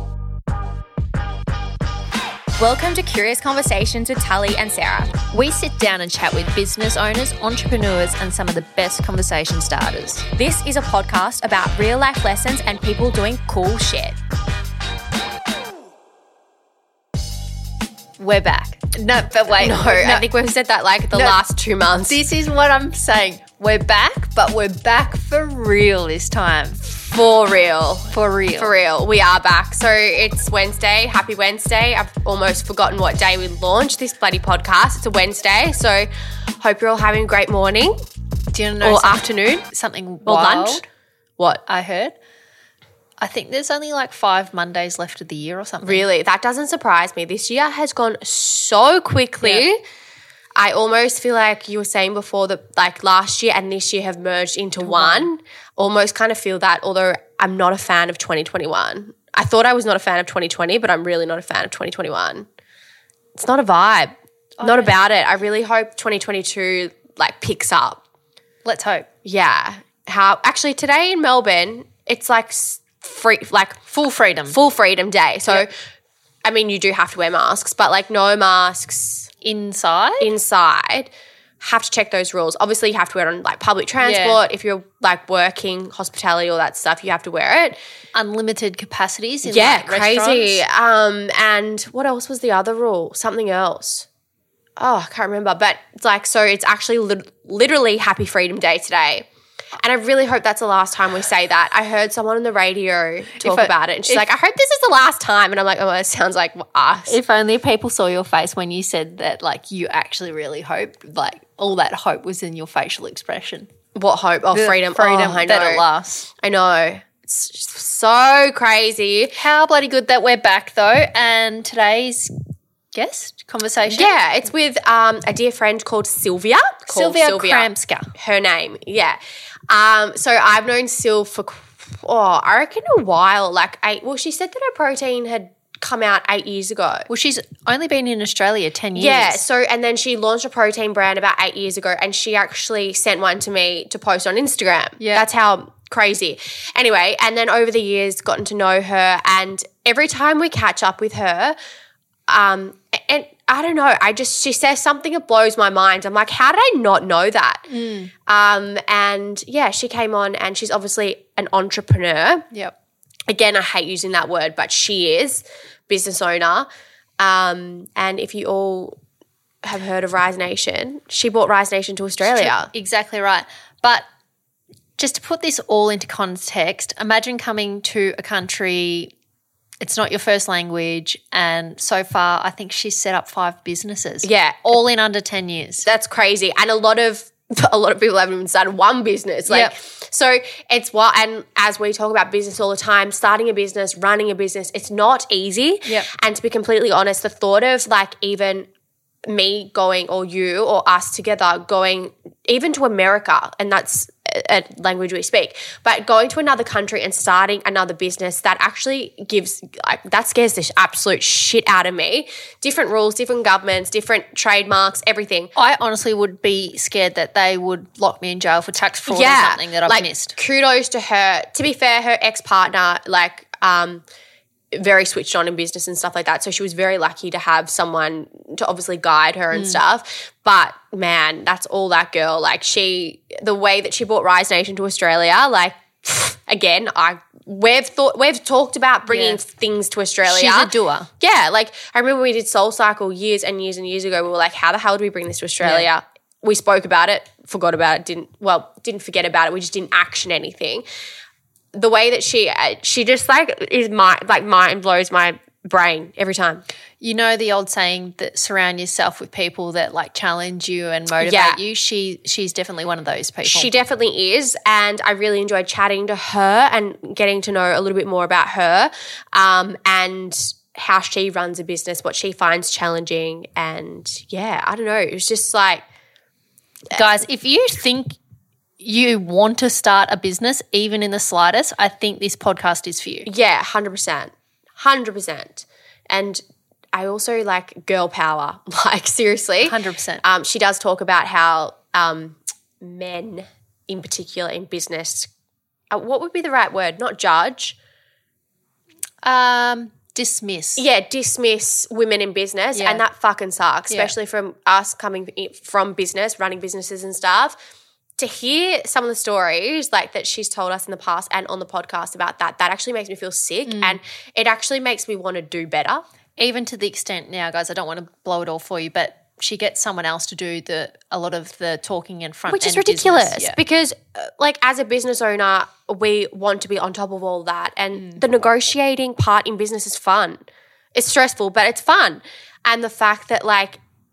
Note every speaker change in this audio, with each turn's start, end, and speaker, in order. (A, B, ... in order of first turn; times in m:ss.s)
0:02.6-0:05.2 A
0:05.3-0:10.2 B
0:10.3-0:14.2 A
0:18.2-0:20.3 B
0:19.6-0:22.2 A
0:21.1-0:21.4 B
0:22.1-0:26.8 B
0:26.8-0:36.1 A
0:28.1-0:28.7 B
0:36.6-0:37.9 A
0:38.5-0:40.8 B
0:38.8-0:39.7 A
0:40.2-0:40.8 A
0:41.7-0:42.1 B
0:43.2-0:46.0 B
0:45.8-0:49.8 A
0:49.4-0:49.7 B
0:50.6-1:02.5 A
0:54.8-0:55.3 B
1:03.4-1:08.0 A
1:04.6-1:05.0 B
1:08.6-1:09.1 B
1:09.2-1:13.9 A
1:13.9-1:14.6 B
1:14.5-1:15.7 A
1:16.4-1:19.3 A
1:19.4-1:20.3 B
1:20.2-1:27.8 A
1:24.0-1:24.4 B
1:28.1-1:30.6 B
1:29.4-1:34.1 A
1:34.8-1:47.2 A
1:43.4-1:44.3 B
1:47.1-1:53.7 B
1:53.9-1:55.8 A
1:54.5-1:56.3 B
1:56.4-1:59.4 A
1:59.3-2:02.3 B
2:02.9-2:04.1 B
2:03.9-2:17.1 A
2:06.9-2:08.1 B
2:17.1-2:19.4 B
2:18.9-2:31.6 A
2:25.0-2:25.2 B
2:32.3-2:37.7 A
2:37.7-2:38.1 B
2:38.2-2:42.5 A
2:43.3-2:46.7 A
2:47.2-2:49.0 A
2:49.6-2:52.7 A
2:52.2-2:54.0 B
2:55.0-2:59.1 B
2:59.8-3:05.8 B
3:04.2-3:04.8 A
3:05.8-3:18.7 A
3:09.5-3:09.7 B
3:19.2-3:35.5 A
3:35.6-3:40.4 B
3:39.1-3:44.0 A
3:44.7-4:10.8 A
3:59.1-3:59.4 B
4:00.2-4:01.1 B
4:05.6-4:05.9 B
4:11.7-4:16.6 A
4:17.0-4:23.7 B
4:21.2-4:21.6 A
4:23.4-4:35.8 A
4:36.9-4:38.2 B
4:38.8-4:43.3 B
4:43.2-4:46.4 A
4:46.9-4:55.3 A
4:49.6-4:50.2 B
4:55.9-4:57.8 A
4:59.2-5:00.8 B
5:00.8-5:07.6 A
5:02.8-5:03.0 B
5:03.9-5:04.1 B
5:08.2-5:16.0 A
5:13.6-5:14.0 B
5:16.4-5:23.6 B
5:22.5-5:30.4 A
5:30.9-5:33.8 A